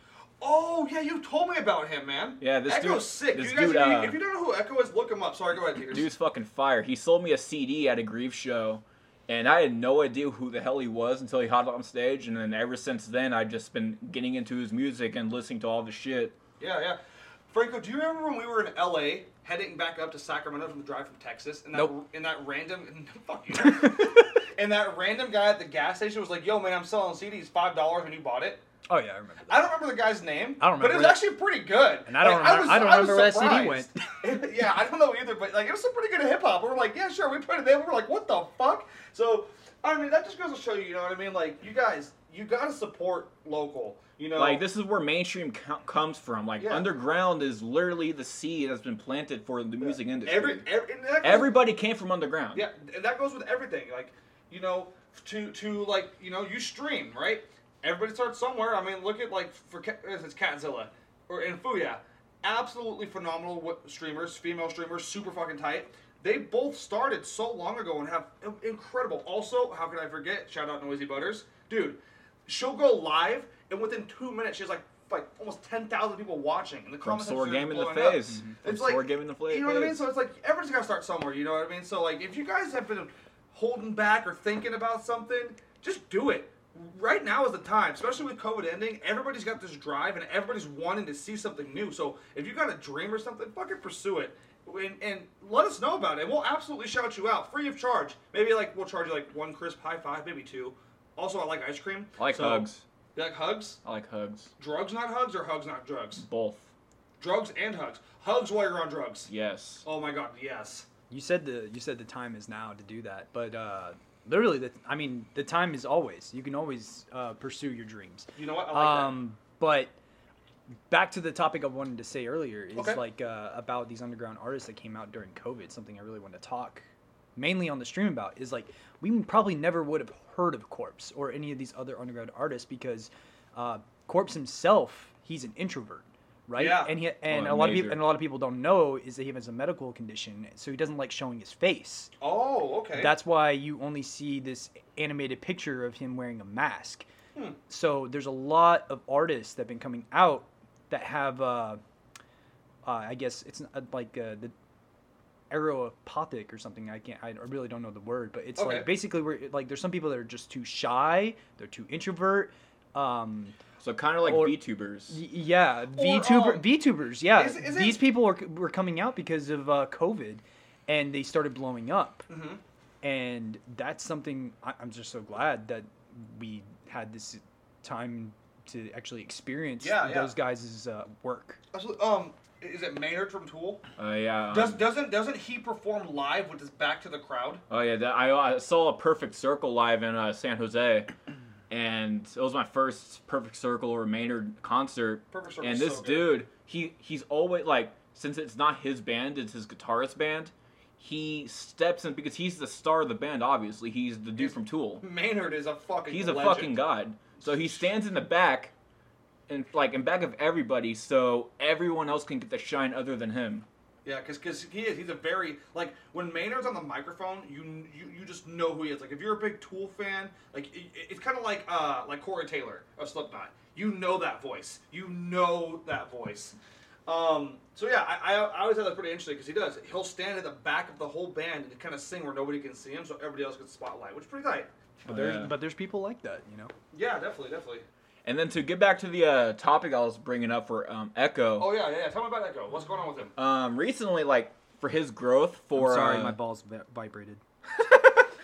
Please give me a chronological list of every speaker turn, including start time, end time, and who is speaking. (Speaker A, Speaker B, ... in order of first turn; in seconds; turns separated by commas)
Speaker A: 0.4-6.1, Speaker B: 2.4-4.2, Speaker B: 5.9-16.4, Speaker A: 16.6-17.0, Speaker A: 17.5-28.6, Speaker C: 28.9-29.6, Speaker A: 29.5-44.6, Speaker C: 30.6-31.2, Speaker C: 32.1-33.9, Speaker B: 44.4-50.7, Speaker A: 46.6-46.9, Speaker A: 49.8-51.6, Speaker B: 51.2-52.6, Speaker A: 52.5-103.8, Speaker B: 77.0-80.1, Speaker B: 102.2-102.8, Speaker B: 103.8-104.5, Speaker A: 104.6-106.2, Speaker B: 106.2-106.7, Speaker A: 107.2-109.3, Speaker B: 109.3-109.8, Speaker A: 109.8-110.9, Speaker C: 111.1-119.9, Speaker A: 118.3-119.2, Speaker C: 120.9-126.8, Speaker A: 122.8-123.0, Speaker C: 127.4-142.1, Speaker A: 136.6-137.0, Speaker B: 137.3-138.1, Speaker A: 142.2-143.2, Speaker C: 143.0-147.1, Speaker C: 147.7-151.8, Speaker C: 152.8-154.5, Speaker C: 155.5-163.6, Speaker A: 158.6-158.9, Speaker B: 163.8-165.2, Speaker C: 164.2-172.3, Speaker A: 165.9-168.1, Speaker A: 172.3-172.6, Speaker C: 173.0-181.6, Speaker A: 179.8-180.4, Speaker A: 181.7-183.8, Speaker B: 184.0-184.8, Speaker A: 184.5-187.6, Speaker B: 187.7-191.1, Speaker B: 191.7-205.1, Speaker A: 195.3-196.4, Speaker A: 204.4-206.8, Speaker B: 206.1-208.7, Speaker A: 207.4-207.9, Speaker B: 209.5-213.7, Speaker A: 214.0-234.7, Speaker C: 235.1-236.7, Speaker B: 235.1-235.5, Speaker A: 236.9-237.8, Speaker B: 238.2-241.7, Speaker A: 241.6-243.3, Speaker B: 243.4-246.4, Speaker C: 245.8-247.4, Speaker B: 247.8-248.3